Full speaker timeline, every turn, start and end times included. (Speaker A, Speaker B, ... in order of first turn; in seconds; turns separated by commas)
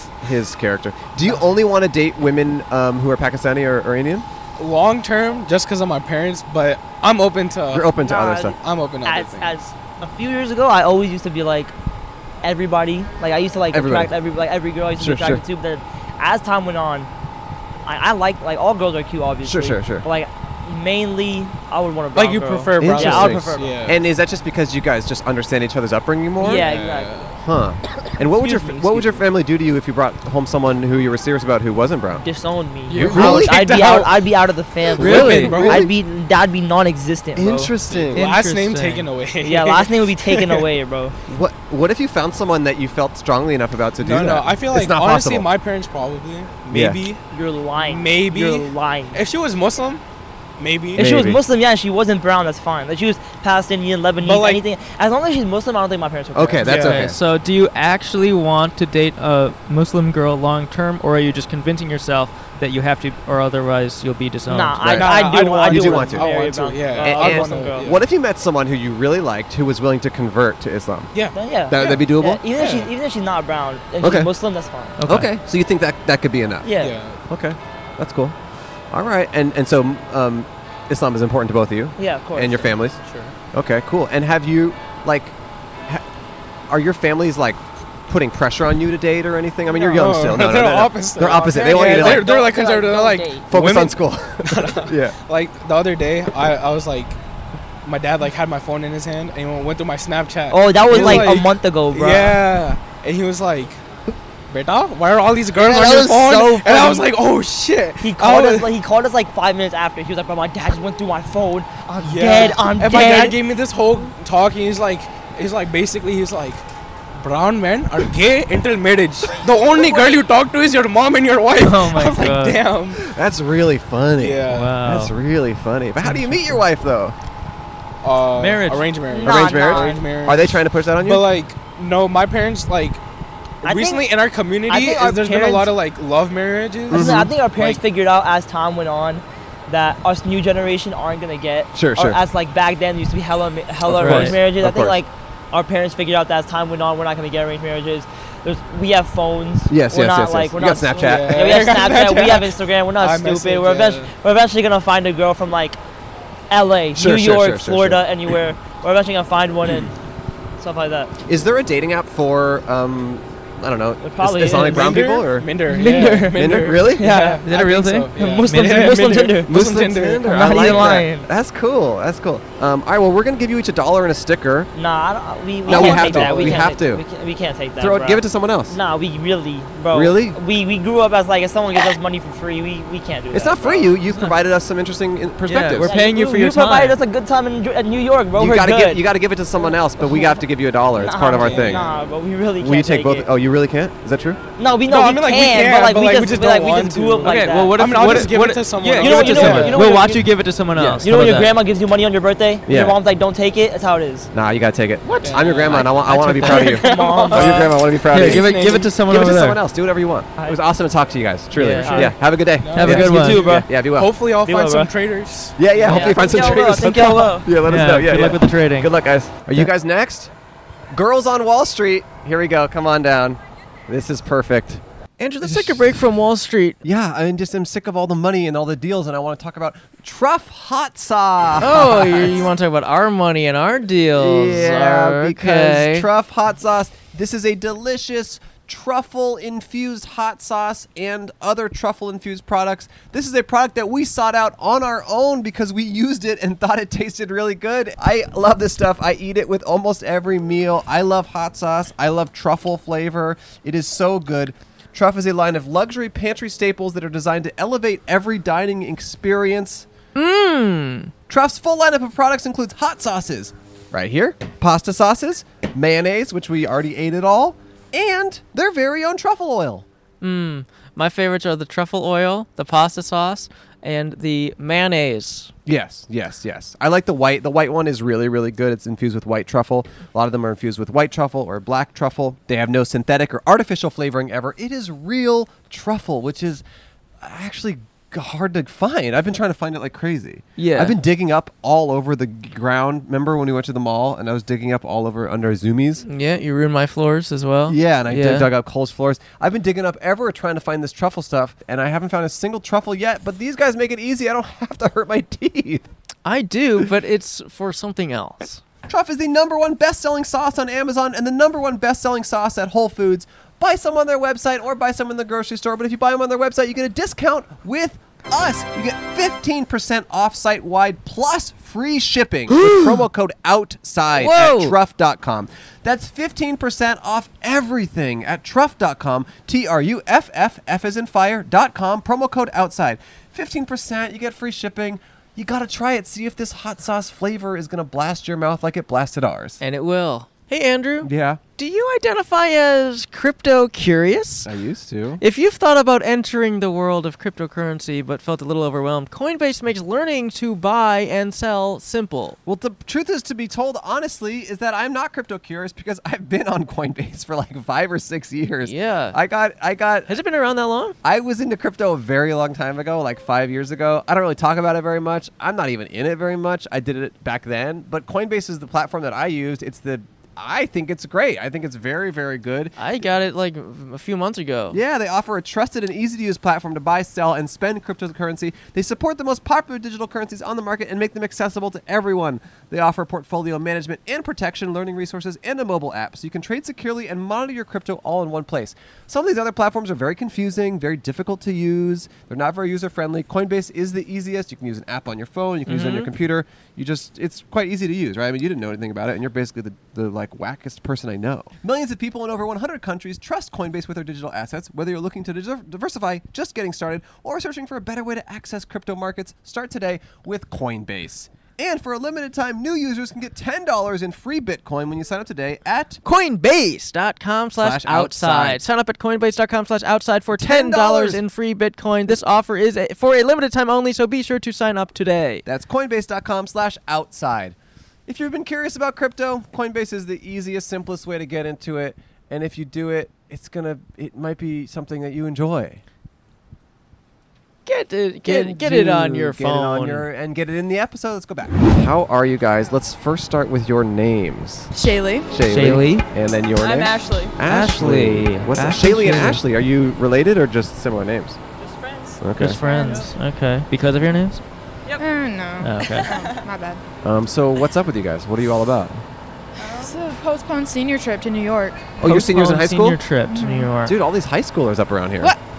Speaker A: 0.2-4.3, Speaker B: 4.6-7.9, Speaker A: 7.7-8.6, Speaker C: 8.0-11.7, Speaker B: 8.6-9.5, Speaker C: 12.4-17.1, Speaker A: 13.7-14.1, Speaker A: 15.0-15.4, Speaker C: 17.9-23.9, Speaker A: 19.4-20.1, Speaker B: 22.1-24.0, Speaker A: 22.8-26.6, Speaker C: 26.4-27.3, Speaker B: 26.5-27.4, Speaker A: 27.4-32.2, Speaker C: 28.2-29.2, Speaker C: 32.2-37.7, Speaker B: 32.9-34.1, Speaker A: 32.9-34.0, Speaker B: 34.9-35.9, Speaker A: 35.0-35.9, Speaker D: 35.2-35.5, Speaker A: 37.4-38.3, Speaker B: 38.0-40.7, Speaker D: 38.1-39.1, Speaker C: 39.4-41.1, Speaker A: 41.3-45.5, Speaker B: 44.0-47.2, Speaker A: 46.7-47.0, Speaker C: 47.3-49.2, Speaker B: 47.8-50.0, Speaker B: 50.6-51.0, Speaker A: 50.9-51.4, Speaker C: 50.9-56.9, Speaker B: 54.2-54.6, Speaker A: 56.3-57.2, Speaker B: 56.6-57.0, Speaker D: 56.7-65.0, Speaker C: 64.5-67.9, Speaker B: 64.9-68.0, Speaker A: 65.7-66.3, Speaker A: 67.0-71.1, Speaker B: 71.1-72.9, Speaker C: 71.3-75.0, Speaker A: 71.7-72.4, Speaker A: 74.0-74.3, Speaker D: 75.0-75.3, Speaker A: 75.0-76.7, Speaker C: 76.6-77.0, Speaker B: 76.8-77.2, Speaker A: 77.3-78.3, Speaker A: 78.9-83.0, Speaker C: 82.0-82.7, Speaker B: 83.0-83.3, Speaker A: 83.5-85.3, Speaker A: 86.7-92.3, Speaker C: 89.7-90.0, Speaker B: 89.8-97.2, Speaker C: 91.5-93.5, Speaker A: 93.5-95.2, Speaker B: 97.8-103.8, Speaker C: 100.5-102.4, Speaker A: 100.9-101.3, Speaker B: 104.5-108.7, Speaker C: 105.5-107.1, Speaker C: 108.0-113.4, Speaker B: 112.0-116.6, Speaker B: 117.1-123.0, Speaker D: 121.5-122.6, Speaker A: 123.0-127.1, Speaker B: 124.2-124.7, Speaker D: 124.5-125.1, Speaker D: 126.0-126.6, Speaker B: 128.0-133.0, Speaker D: 128.4-128.9, Speaker C: 129.1-130.0, Speaker A: 129.2-131.3, Speaker B: 133.6-137.8, Speaker C: 133.6-134.1, Speaker C: 134.7-135.7, Speaker A: 136.9-137.3, Speaker C: 136.9-155.8, Speaker A: 141.7-142.2, Speaker A: 143.9-145.0, Speaker D: 144.0-144.4, Speaker A: 149.7-151.7, Speaker B: 151.0-154.1, Speaker C: 156.5-159.9, Speaker A: 156.9-158.0, Speaker C: 160.6-161.1, Speaker A: 161.2-165.5, Speaker C: 164.0-167.4, Speaker B: 164.7-171.0, Speaker A: 166.3-167.1, Speaker D: 167.4-169.1, Speaker C: 168.1-169.6, Speaker A: 169.5-174.7, Speaker C: 170.2-171.3, Speaker C: 174.7-183.9, Speaker A: 175.7-177.0, Speaker B: 175.7-176.6, Speaker A: 177.8-178.8, Speaker A: 179.9-180.4, Speaker A: 183.3-185.9, Speaker D: 185.4-187.0, Speaker C: 185.8-189.1, Speaker A: 188.3-191.8, Speaker C: 189.6-190.4, Speaker C: 190.9-193.3, Speaker B: 191.3-191.9, Speaker A: 192.6-194.4, Speaker C: 194.6-197.8, Speaker B: 194.8-200.0, Speaker D: 197.2-201.5, Speaker C: 198.9-200.3, Speaker C: 201.0-204.3, Speaker A: 202.7-203.0, Speaker A: 204.3-208.5, Speaker B: 205.2-206.1, Speaker D: 205.7-206.7, Speaker C: 206.3-207.8, Speaker B: 206.7-207.6, Speaker D: 208.1-209.6, Speaker B: 208.1-208.9, Speaker A: 209.0-214.1, Speaker D: 211.5-212.1, Speaker C: 211.8-212.1, Speaker B: 212.6-216.4, Speaker D: 212.8-213.4, Speaker C: 212.8-213.7, Speaker C: 214.4-214.9, Speaker A: 215.6-220.3, Speaker C: 215.9-217.5, Speaker D: 217.6-218.9, Speaker A: 220.9-224.8, Speaker D: 225.2-226.8, Speaker A: 225.4-225.9, Speaker A: 226.8-232.5, Speaker D: 231.6-236.1, Speaker A: 234.1-259.9, Speaker D: 260.1-261.1, Speaker A: 261.3-269.8, Speaker D: 270.2-275.5, Speaker A: 275.6-286.6, Speaker A: 287.2-296.1, Speaker D: 290.6-291.0, Speaker D: 296.1-298.5, Speaker A: 297.7-305.9, Speaker D: 306.2-308.6, Speaker A: 308.9-339.6, Speaker D: 322.5-322.9, Speaker D: 324.2-324.7, Speaker D: 339.6-344.5, Speaker A: 341.0-341.4, Speaker A: 344.4-345.2, Speaker D: 345.2-352.4, Speaker A: 352.4-360.1, Speaker D: 358.6-359.2, Speaker D: 360.1-360.9, Speaker A: 361.0-372.7, Speaker D: 372.8-374.8, Speaker A: 374.7-416.0, Speaker D: 395.7-396.1, Speaker D: 416.0-425.4, Speaker A: 417.6-418.6, Speaker A: 420.3-421.2, Speaker A: 425.4-427.6, Speaker A: 428.1-435.8, Speaker D: 437.6-440.1, Speaker A: 438.2-444.7, Speaker E: 444.7-445.3, Speaker A: 445.3-451.4, Speaker D: 445.4-446.1, Speaker F: 446.6-447.3, Speaker D: 447.4-449.4, Speaker F: 451.6-453.1, Speaker A: 452.2-452.6, Speaker D: 452.4-454.4, Speaker E: 452.7-453.0, Speaker E: 455.0-456.8, Speaker D: 455.6-456.1, Speaker F: 455.8-456.4, Speaker A: 457.0-459.0, Speaker F: 459.6-460.0, Speaker E: 459.8-461.9, Speaker A: 462.0-463.0, Speaker D: 462.0-463.9, Speaker E: 463.3-463.7, Speaker A: 463.8-465.3